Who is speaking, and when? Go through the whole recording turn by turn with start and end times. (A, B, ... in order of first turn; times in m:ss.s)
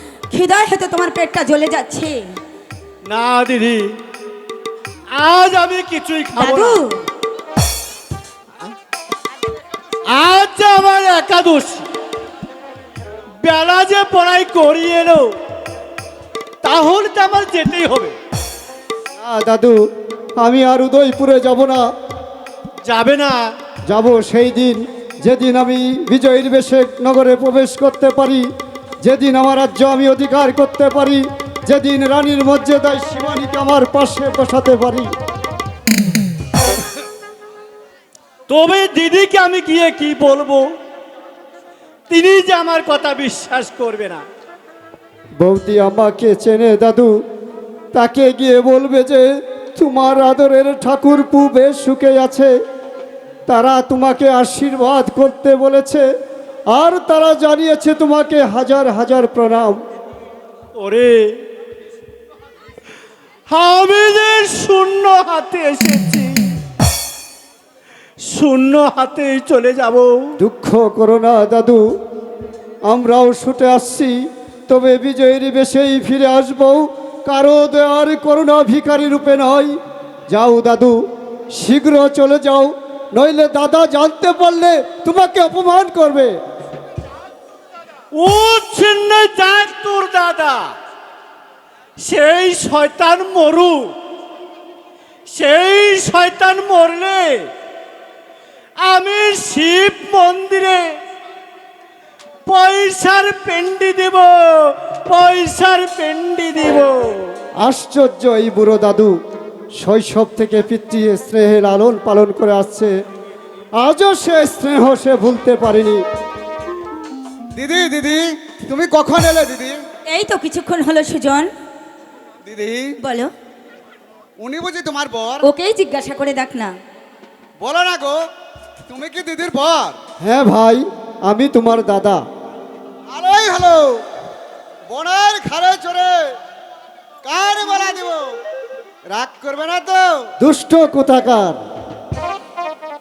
0:00.3-0:02.2 A
0:03.1-0:03.9 B
0:05.2-0:06.8 B
0:06.4-0:07.0 A
0:10.1-0:11.8 B
0:13.4-0:15.3 B
0:16.6-0:18.2 B
0:19.2-0:19.8 C
0:20.4-0:21.9 C
0:22.8-0:23.5 B
0:23.9-0:28.5 C
0:29.0-0:35.1 C
0:38.5-0:40.7 B
0:42.1-0:44.2 B
0:45.4-0:47.2 C
0:47.9-0:52.5 C
0:53.5-0:56.0 C
0:56.7-0:59.8 C
1:00.8-1:01.4 B
1:03.5-1:06.5 B
1:08.3-1:10.3 B
1:10.4-1:11.9 C
1:12.9-1:14.2 C
1:14.7-1:19.8 C
1:20.3-1:26.4 C
1:28.1-1:30.7 B
1:32.0-1:33.9 B
1:35.3-1:37.5 B
1:38.8-1:40.9 B
1:42.5-1:47.3 B
1:47.6-1:49.2 C
1:49.8-1:53.0 C
1:53.8-1:56.0 C
1:57.6-1:59.8 D
2:00.1-2:01.5 A
2:02.5-2:03.0 D
2:03.0-2:03.3 A
2:04.4-2:05.4 D
2:05.4-2:06.7 A
2:07.6-2:08.3 D
2:08.9-2:10.0 D
2:10.2-2:12.3 C
2:13.1-2:14.0 D
2:14.9-2:16.3 D
2:17.2-2:18.4 D
2:19.1-2:20.3 D
2:20.4-2:21.6 C